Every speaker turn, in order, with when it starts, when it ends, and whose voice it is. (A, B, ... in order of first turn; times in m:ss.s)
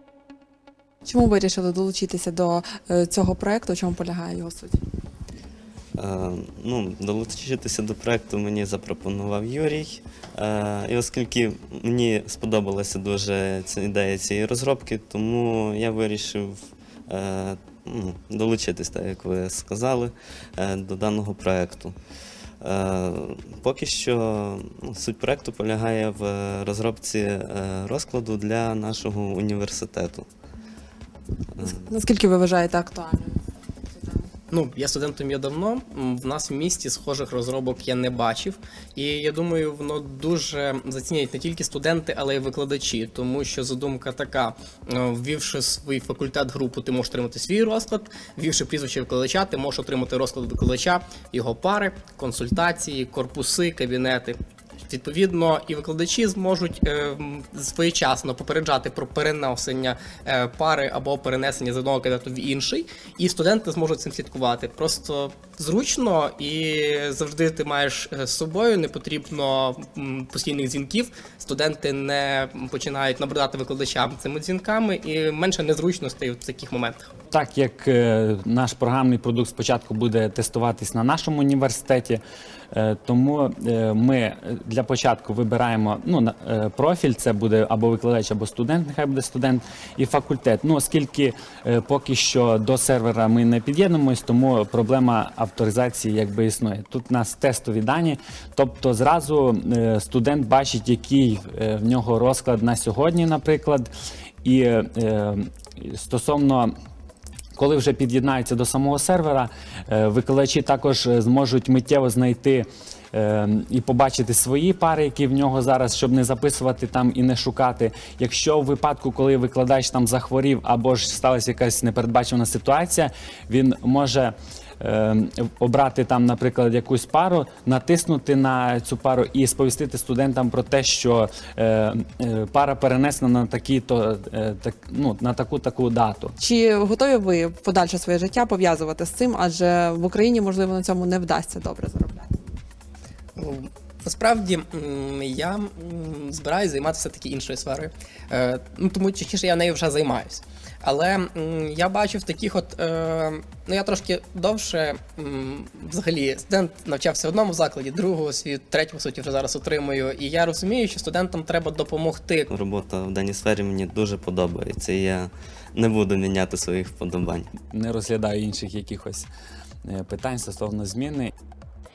0:01.0-0:04.8 A
0:06.0-0:22.0 B
0:22.6-0:30.3 B
0:31.6-0:31.8 B
0:31.6-0:34.3 A
0:34.5-1:17.1 C
1:17.3-1:43.9 D
1:44.4-1:46.7 D
1:47.5-2:16.4 D
2:16.4-2:22.4 A
2:23.4-2:42.5 C
2:42.5-2:47.5 B
2:47.6-2:49.3 D
2:49.8-2:51.3 D